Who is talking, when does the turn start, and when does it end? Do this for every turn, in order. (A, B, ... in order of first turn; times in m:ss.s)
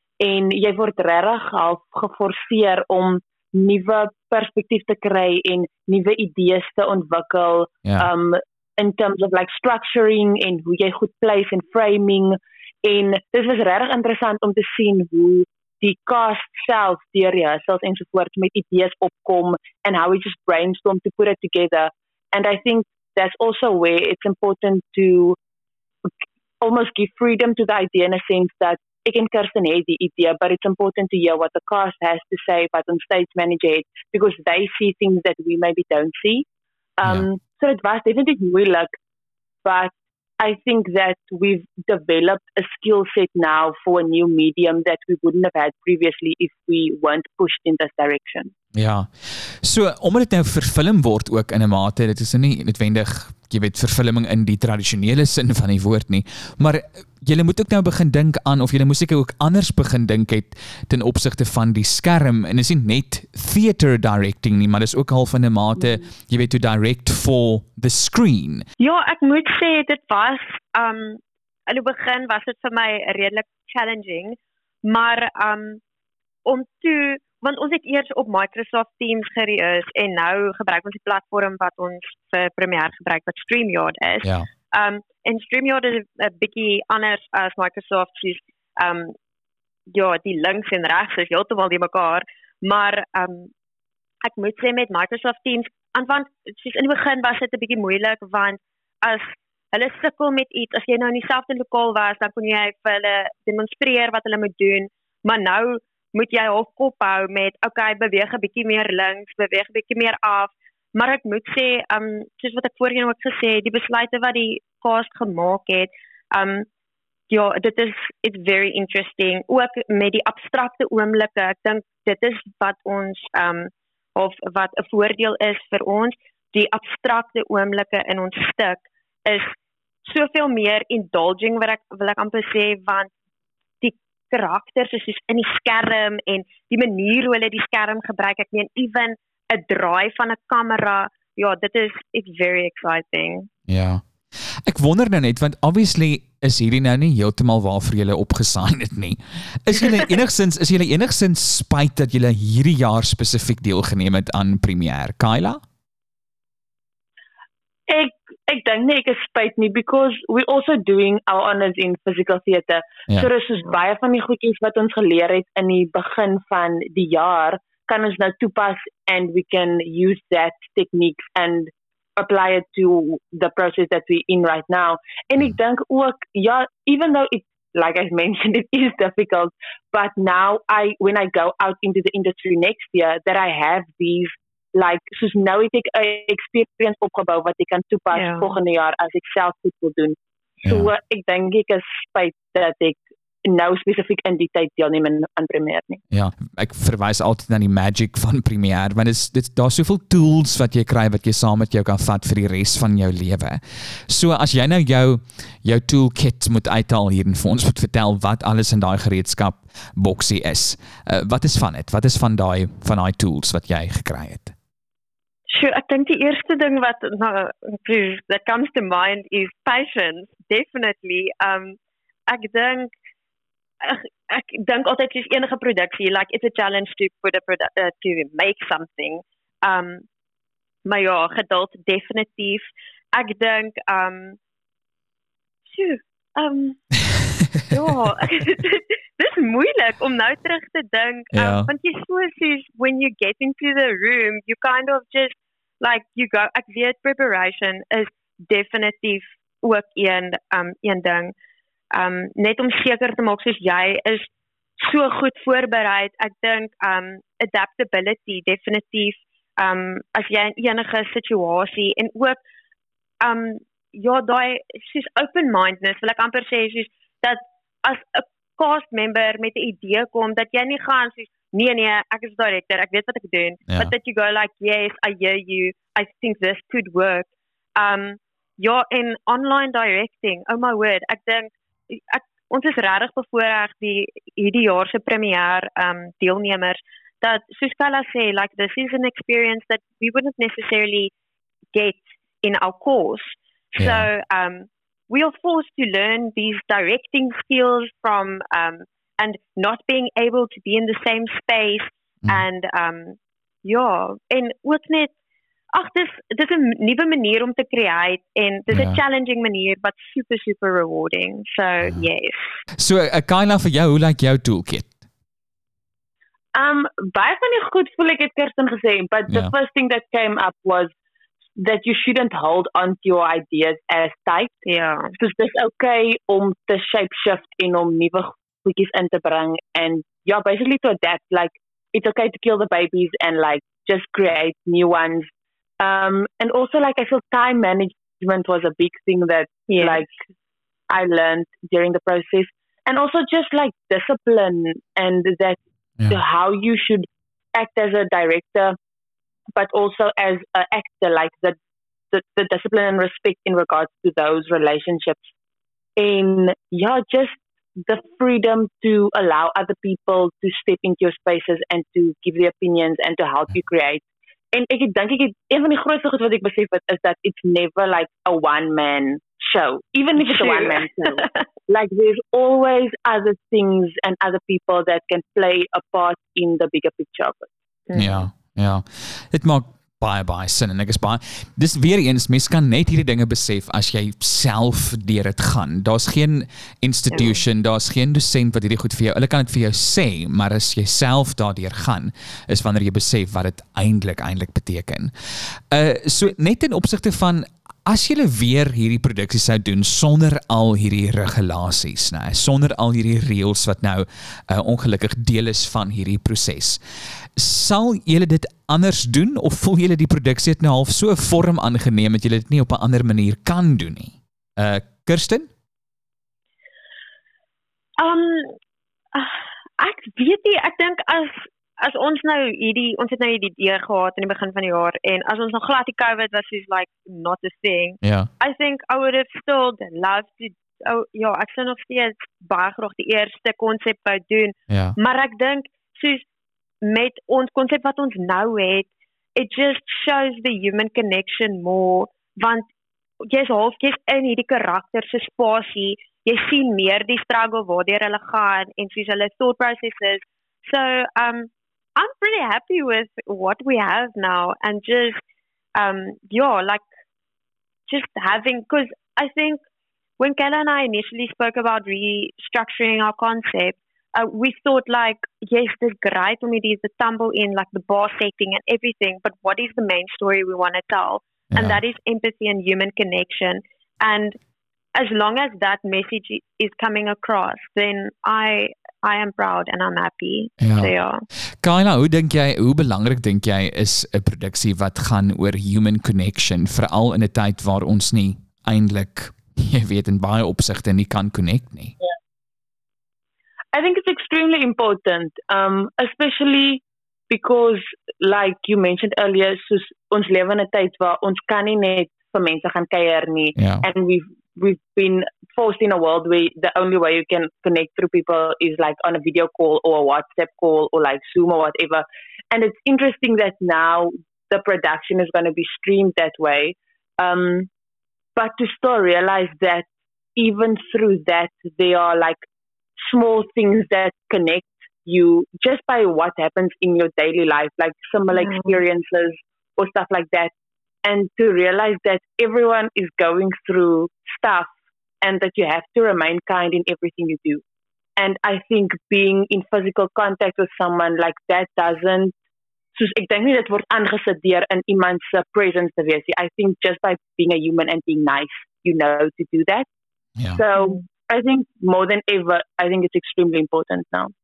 0:00.2-0:25.4 A
0:26.6-0:36.4 A
0:37.0-0:38.9 A
0:39.6-0:48.5 A
0:48.8-1:08.7 B
1:08.8-1:15.8 C
1:16.4-1:29.2 C
1:29.9-1:33.5 C
1:34.2-1:56.7 C
1:57.3-2:13.1 C
2:13.8-2:23.5 C
2:23.7-2:24.0 B
2:24.6-2:35.6 B
2:37.9-3:16.0 A
3:08.1-3:08.4 C
3:10.6-3:10.9 B
3:16.1-3:34.5 B
3:35.5-3:42.9 C
3:43.8-3:50.0 C
3:50.8-3:54.4 C
3:55.7-3:56.9 C
3:57.7-4:11.3 C
4:01.3-4:01.7 B
4:11.9-4:14.3 C
4:14.8-4:22.4 C
4:23.2-4:51.1 C
4:51.7-5:05.1 C
4:53.8-4:54.1 B
5:05.7-5:12.6 C
5:08.7-5:09.0 B
5:12.8-5:14.9 B
5:16.5-5:20.9 A
5:21.6-5:24.5 A
5:24.7-5:25.1 C
5:25.2-5:40.2 A
5:39.7-5:40.0 C
5:40.9-5:48.8 A
5:49.6-5:51.6 A
5:52.1-5:55.3 A
5:56.0-6:17.5 A
6:10.2-6:11.4 C
6:17.9-6:18.2 C
6:17.9-6:46.8 B
6:47.4-6:55.5 B
6:58.0-6:58.6 C
6:59.1-7:16.2 C
7:08.0-7:08.3 B
7:14.7-7:15.0 B
7:16.8-7:22.7 C
7:23.2-7:35.2 C
7:35.8-7:36.8 C
7:37.9-7:39.6 C
7:40.2-7:54.4 C
7:51.5-7:51.8 B
7:54.9-8:01.2 C
8:00.6-8:00.9 B
8:01.6-8:12.0 B
8:13.7-8:37.7 A
8:23.6-8:23.8 B
8:38.4-8:42.4 A
8:43.0-8:50.5 A
8:48.4-8:48.7 C
8:51.0-8:57.6 A
8:58.2-9:02.3 A
9:02.9-9:09.9 A
9:10.5-9:14.3 A